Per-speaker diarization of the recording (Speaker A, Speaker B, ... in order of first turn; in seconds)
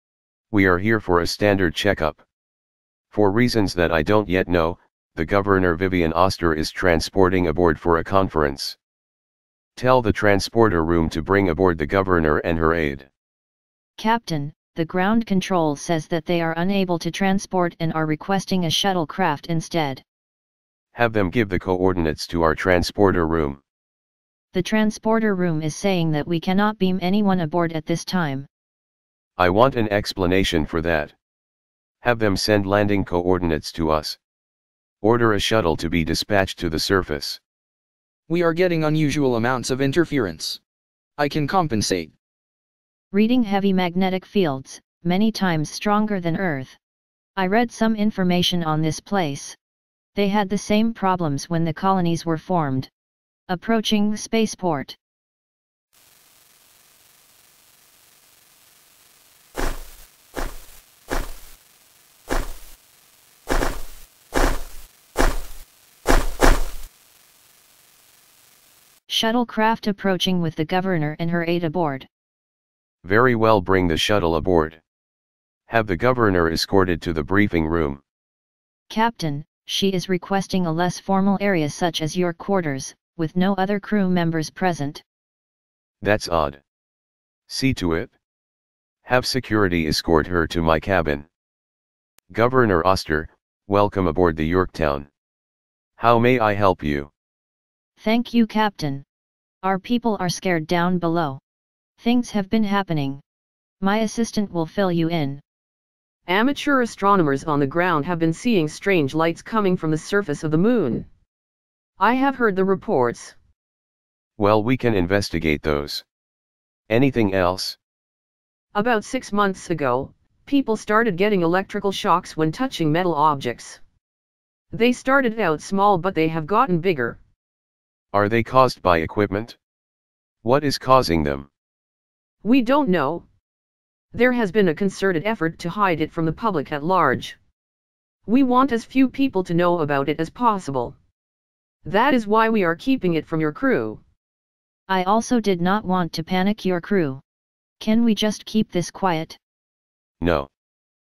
Speaker A: 0.5-2.2, 3.1-8.8, 9.8-13.1, 20.9-23.6, 29.4-31.1, 32.0-34.2, 35.0-37.4, 73.0-74.8, 75.7-78.0, 86.0-86.6, 87.5-88.1, 89.0-91.3, 92.3-95.1, 96.0-97.1, 114.4-116.0, 116.9-117.8, 128.1-129.6, 130.4-131.5, 150.2-150.5
Speaker B: 14.0-20.0, 24.5-28.5, 43.1-46.8, 47.4-49.6, 50.1-52.9, 53.5-55.0, 69.1-72.1, 78.9-85.0, 98.0-99.0, 99.6-101.4, 102.0-103.2, 103.8-105.4, 144.9-147.2, 147.8-149.4
Speaker C: 38.3-40.6, 41.2-42.1
Speaker D: 106.3-111.1, 112.0-113.3, 118.8-123.8, 124.7-127.2, 132.4-133.2, 134.1-137.4, 138.3-140.9, 141.8-144.0